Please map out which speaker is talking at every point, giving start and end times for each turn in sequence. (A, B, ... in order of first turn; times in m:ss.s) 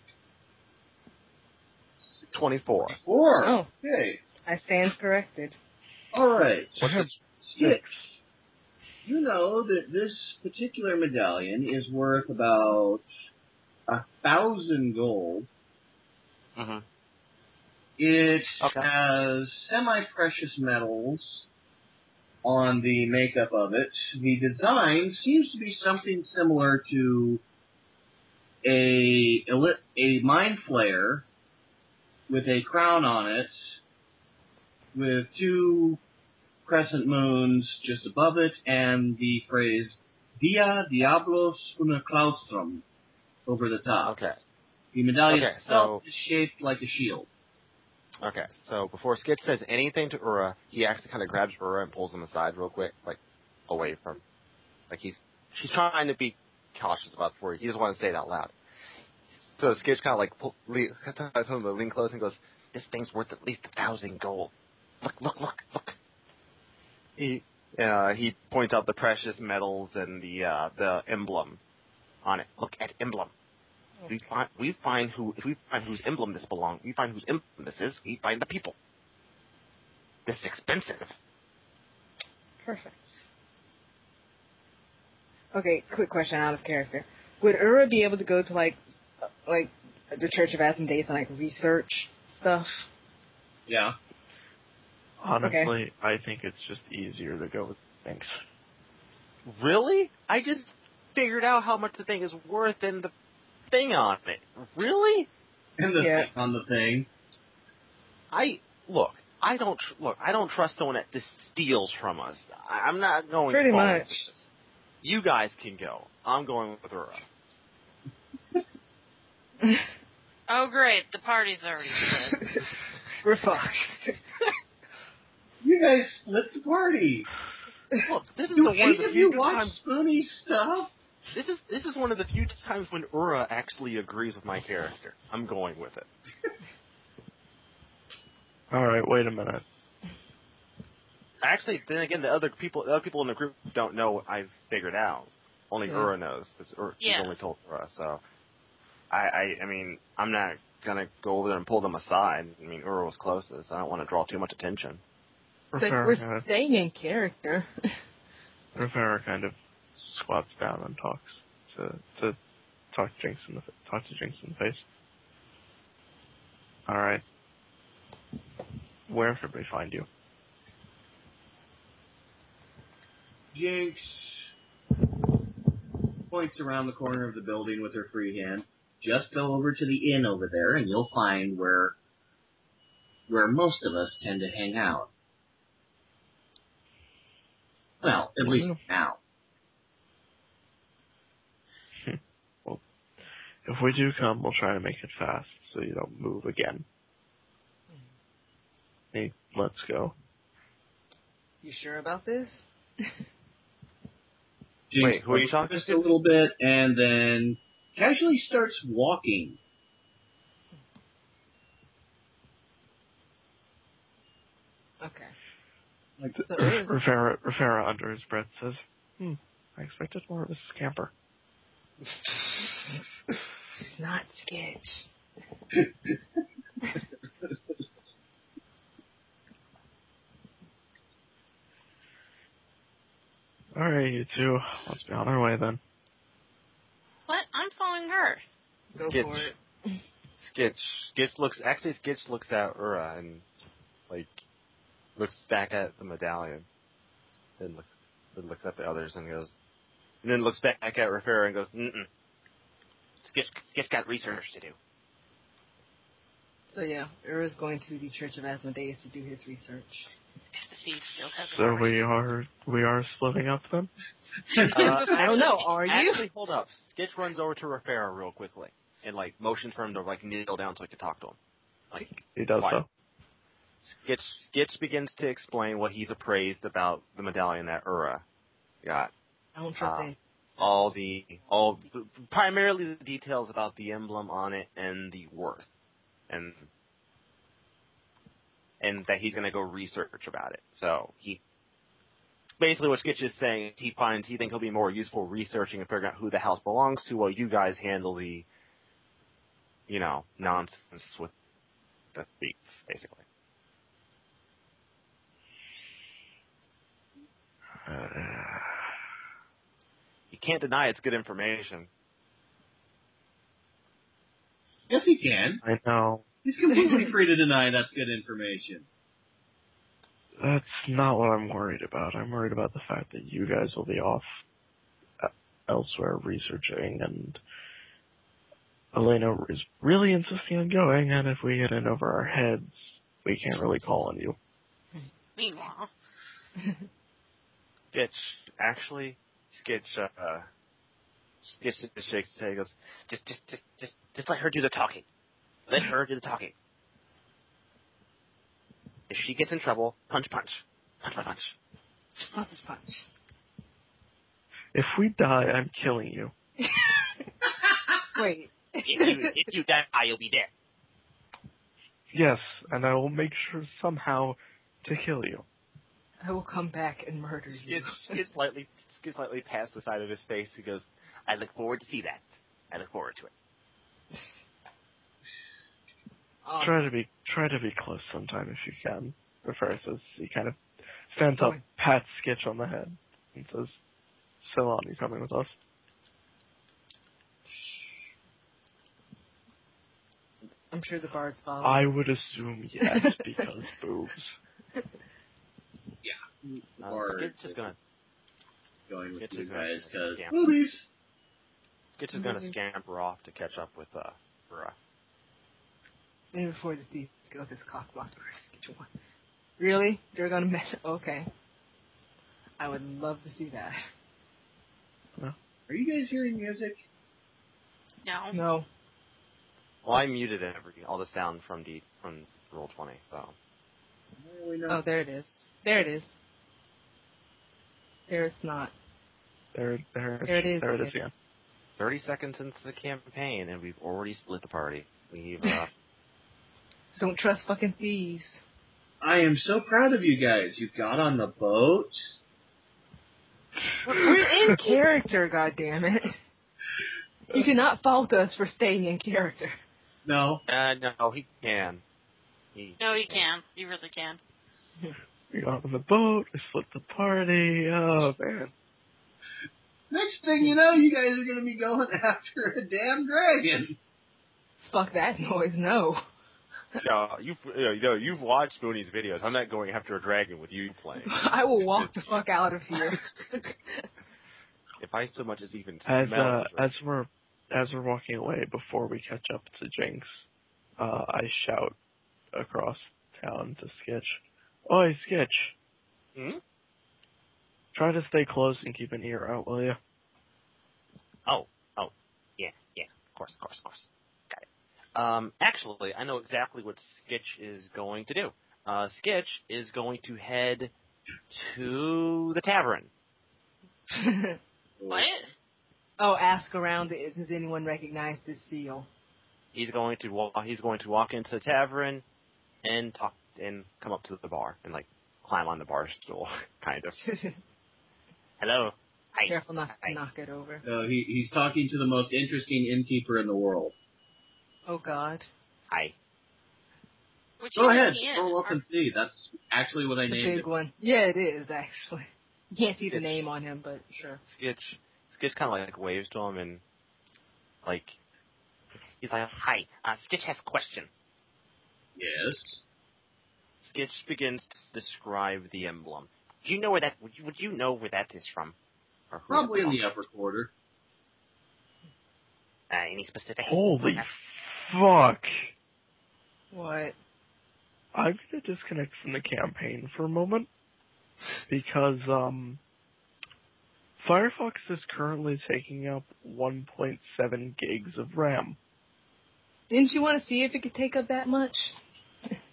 0:02.0-0:02.2 A
0:02.3-0:03.0 B
0:03.0-0:04.2 A
0:03.4-0:03.7 C
0:04.4-0:05.6 C
0:06.1-0:08.2 A
0:06.8-0:07.8 B
0:09.0-0:13.0 A
0:13.9-0:15.5 A
0:16.6-0:16.8 B
0:18.0-0:21.4 A
0:18.6-0:18.9 B
0:22.4-0:27.4 A
0:28.6-0:31.2 A
0:32.3-0:33.8 A
0:34.9-0:36.0 A
0:36.6-0:42.8 A
0:43.4-0:44.2 A
0:44.0-0:44.4 B
0:44.9-0:47.3 A
0:45.3-0:46.0 B
0:48.2-0:54.2 B
0:54.9-0:58.5 B
0:59.6-1:06.0 B
1:07.2-1:11.6 B
1:12.2-1:13.3 B
1:14.1-1:18.7 B
1:20.2-1:21.1 B
1:22.6-1:23.2 C
1:25.5-1:32.9 C
1:33.7-1:33.9 A
1:35.2-1:38.4 D
1:35.4-1:35.7 C
1:39.4-1:43.1 B
1:43.7-1:45.3 B
1:45.8-1:47.1 A
1:46.0-1:46.3 C
1:48.3-1:54.5 B
1:53.5-1:54.3 C
1:55.0-1:57.2 B
2:00.5-2:02.5 E
2:03.2-2:04.5 C
2:05.6-2:07.3 A
2:08.0-2:09.8 B
2:08.5-2:10.9 A
2:11.3-2:16.1 B
2:18.7-2:19.6 D
2:21.4-2:28.2 B
2:25.8-2:26.1 C
2:27.0-2:27.3 E
2:29.1-2:35.0 B
2:35.7-2:36.4 D
2:35.7-2:38.0 C
2:38.8-2:42.4 D
2:42.9-2:44.8 D
2:46.9-2:47.2 D
2:49.1-2:50.1 D
2:53.5-2:54.5 A
2:56.3-3:01.9 A
3:03.3-3:05.1 A
3:08.0-3:09.2 A
3:08.4-3:08.8 D
3:12.0-3:12.8 D
3:13.6-3:16.8 D
3:19.1-3:20.1 D
3:21.6-3:23.1 C
3:24.9-3:29.6 A
3:25.0-3:26.1 B
3:35.0-3:35.3 C
3:36.4-3:37.0 C
3:36.6-3:41.1 D
3:43.8-3:45.1 C
3:53.7-3:55.8 D
3:57.3-3:58.4 E
3:58.9-4:00.0 C
3:59.1-3:59.5 B
4:00.4-4:03.4 B
4:04.1-4:04.4 B
4:05.2-4:06.6 B
4:07.6-4:09.5 B
4:10.2-4:12.1 B
4:13.2-4:14.8 B
4:16.7-4:20.1 C
4:20.5-4:22.0 E
4:21.4-4:23.9 D
4:24.5-4:25.7 E
4:24.5-4:25.0 A
4:24.7-4:31.4 B
4:24.7-4:26.2 C
4:31.9-4:32.8 B
4:32.4-4:32.8 D
4:33.8-4:38.2 B
4:38.8-4:39.1 B
4:39.6-4:40.2 C
4:39.8-4:45.7 B
4:46.3-4:46.7 B
4:48.8-4:51.4 B
4:52.6-4:58.4 B
4:59.9-5:01.3 B
5:02.1-5:03.2 B
5:07.8-5:08.9 D
5:10.3-5:11.9 B
5:14.9-5:15.6 A
5:15.6-5:16.2 D
5:16.4-5:18.9 A
5:20.4-5:24.2 D
5:25.2-5:27.4 D
5:28.9-5:34.4 D
5:35.4-5:35.9 E
5:37.9-5:40.5 B
5:41.4-5:45.0 B
5:45.7-5:46.5 B
5:49.1-5:51.5 B
5:52.3-5:53.1 C
5:54.7-5:56.3 D
5:56.6-5:57.2 C
5:58.1-5:59.5 C
5:58.8-6:00.5 B
6:02.1-6:05.4 D
6:06.2-6:08.2 C
6:07.5-6:13.3 B
6:16.4-6:16.9 C
6:16.6-6:20.6 D
6:21.1-6:23.8 D
6:21.4-6:21.6 C
6:24.4-6:25.5 D
6:30.7-6:31.9 C
6:31.6-6:34.4 D
6:32.8-6:33.2 C
6:36.0-6:37.6 A
6:36.8-6:37.8 B
6:38.9-6:40.9 A
6:39.2-6:40.4 B
6:42.0-6:44.8 B
6:42.1-6:42.5 C
6:46.3-6:48.9 C
6:49.6-6:51.3 C
6:52.6-6:53.8 C
6:55.7-6:56.8 A
6:58.0-6:58.4 E
6:58.3-6:58.7 C
6:59.8-7:03.3 B
7:04.2-7:04.8 A
7:04.7-7:06.1 C
7:08.1-7:08.7 C
7:09.5-7:11.1 D
7:10.2-7:10.9 C
7:11.8-7:15.7 B
7:17.0-7:18.4 C
7:19.0-7:22.2 A
7:23.8-7:26.2 C
7:27.3-7:29.6 C
7:30.0-7:30.4 A
7:30.5-7:31.8 B
7:32.5-7:33.2 B
7:32.8-7:34.2 E
7:35.3-7:38.5 D
7:39.9-7:43.8 A
7:44.7-7:46.0 C
7:46.8-7:52.0 B
7:51.0-7:53.8 C
7:54.8-7:56.7 B
7:55.8-8:00.2 D
8:00.8-8:01.8 D
8:02.3-8:05.5 D
8:06.1-8:06.4 B
8:07.7-8:09.8 D
8:11.2-8:20.7 B
8:21.3-8:22.9 B
8:23.9-8:24.4 C
8:24.8-8:25.1 A
8:24.9-8:25.3 E
8:26.0-8:28.9 C
8:29.5-8:32.0 B
8:32.6-8:37.0 B
8:37.0-8:37.4 C
8:38.4-8:40.0 B
8:39.3-8:40.6 C
8:40.6-8:43.7 A
8:44.6-8:45.3 C
8:47.4-8:48.6 E
8:47.6-8:50.5 A
8:50.1-8:54.2 C
8:52.9-8:53.2 B
8:54.2-8:56.6 B
8:57.6-8:58.0 B
8:59.0-9:00.9 B
9:02.0-9:02.6 A
9:03.6-9:08.6 B
9:09.1-9:09.8 B
9:09.3-9:10.5 A
9:12.7-9:14.3 B
9:13.5-9:15.5 D
9:16.5-9:16.9 C
9:17.9-9:20.5 D
9:21.5-9:22.6 D
9:24.0-9:28.6 D
9:29.7-9:31.7 C